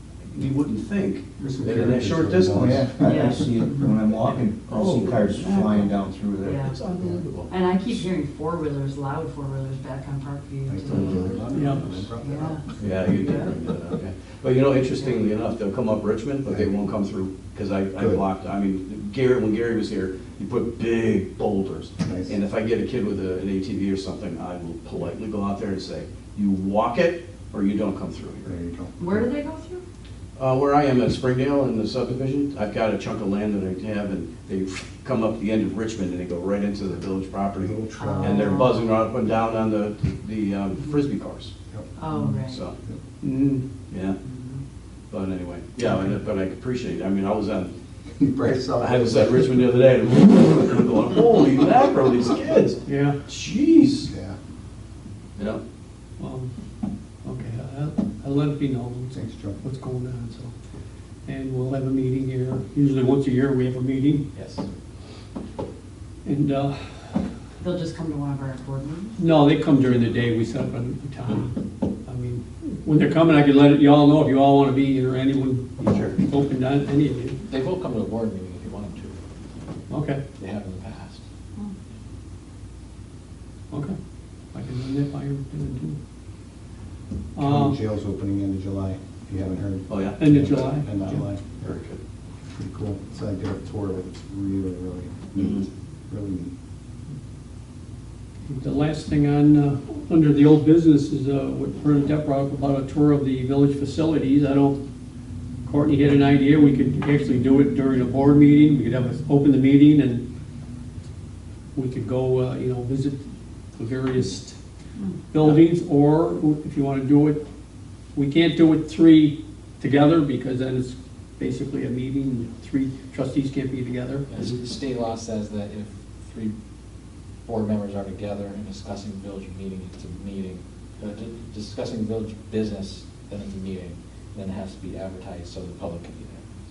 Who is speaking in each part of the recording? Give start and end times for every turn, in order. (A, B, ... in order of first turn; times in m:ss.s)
0:00.3-0:02.9 A
0:01.4-0:03.2 B
0:02.5-0:06.6 C
0:03.0-0:03.9 D
0:04.2-0:07.5 A
0:06.4-0:06.8 D
0:07.5-0:13.5 D
0:10.7-0:13.2 B
0:10.9-0:11.2 A
0:11.5-0:12.1 E
0:12.8-0:28.5 A
0:16.5-0:16.7 B
0:18.0-0:18.2 B
0:22.0-0:22.3 B
0:28.4-0:29.3 B
0:29.0-0:29.8 D
0:30.4-0:41.5 A
0:37.6-0:38.6 B
0:38.0-0:38.9 D
0:42.0-0:42.6 D
0:42.5-0:42.8 A
0:43.2-0:43.6 E
0:43.9-0:44.2 A
0:44.2-0:44.6 D
0:45.1-0:47.7 A
0:48.2-0:49.7 B
0:48.8-0:54.1 A
0:52.9-0:53.2 E
0:54.1-0:54.4 B
0:56.2-0:56.5 E
0:57.2-1:00.5 E
0:59.1-0:59.6 B
1:01.3-1:04.2 E
1:04.3-1:04.6 F
1:06.2-1:07.2 E
1:07.6-1:09.2 D
1:09.2-1:17.4 E
1:15.8-1:16.2 A
1:17.4-1:19.2 F
1:19.9-1:20.2 E
1:20.4-1:21.2 F
1:23.7-1:24.0 E
1:24.5-1:26.0 E
1:27.4-1:27.8 E
1:27.4-1:31.7 B
1:29.9-1:30.7 A
1:30.2-1:31.2 E
1:31.6-1:32.0 A
1:32.5-1:36.5 B
1:35.4-1:35.7 A
1:38.5-1:44.8 E
1:45.6-1:50.2 E
1:51.8-1:53.2 E
1:53.8-1:54.6 E
1:55.3-1:57.4 E
1:58.2-2:04.3 E
2:04.3-2:06.6 F
2:07.5-2:16.4 F